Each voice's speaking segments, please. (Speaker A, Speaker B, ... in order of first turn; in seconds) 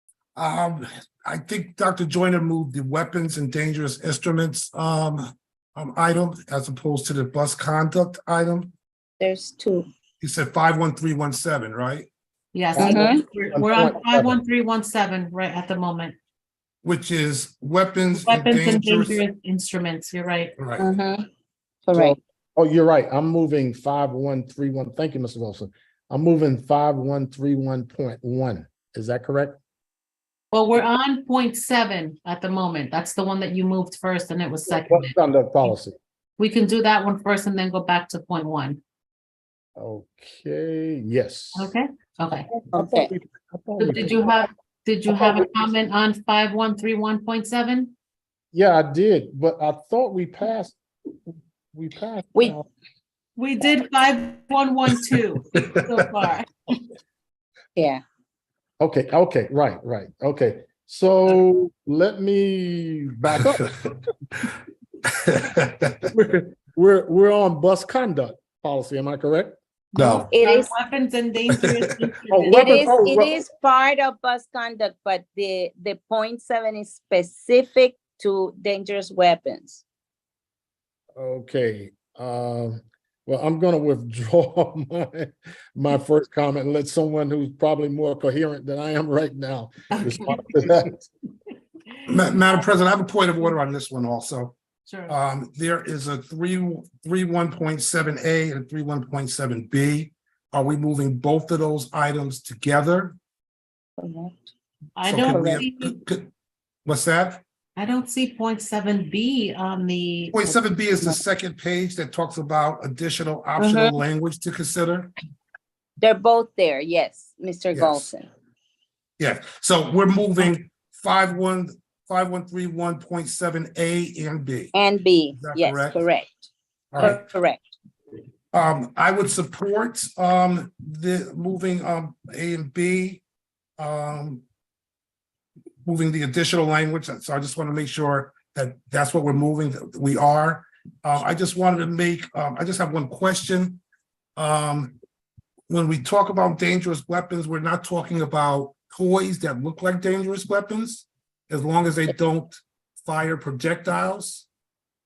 Speaker A: 0.4-8.7, 10.2-12.1, 16.8-19.2, 20.6-20.9, 65.3-66.1, 70.0-70.3, 92.1-94.6, 95.1-103.2, 105.0-106.3, 106.8-107.4, 110.3-115.1, 117.7-118.1, 119.2-124.7, 125.3-126.0, 126.9-127.2, 128.5-133.2, 133.8-134.4, 135.8-143.8, 144.4-145.0, 145.7-154.5
Speaker B: 9.2-9.9, 12.8-13.2, 20.8-21.3, 21.9-22.2, 42.7-43.1, 57.8-58.0, 70.3-70.7, 72.5-79.8, 104.0-104.5, 105.3-105.6, 113.6-114.0, 116.0-118.3, 124.7-127.8
Speaker C: 12.5-16.2, 18.1-20.6, 30.5-35.8, 36.4-38.8, 41.5-42.5, 43.8-47.9, 53.4-56.5, 70.0-72.9, 89.9-90.7, 92.0-92.6, 94.8-95.2, 105.0-106.0, 107.8-110.5
Speaker D: 12.7-14.4, 21.9-29.6, 34.8-36.0, 39.8-41.7, 42.5-44.3, 48.5-50.8, 51.7-52.7, 58.8-63.6, 66.1-69.6, 72.3-73.4, 81.2-91.0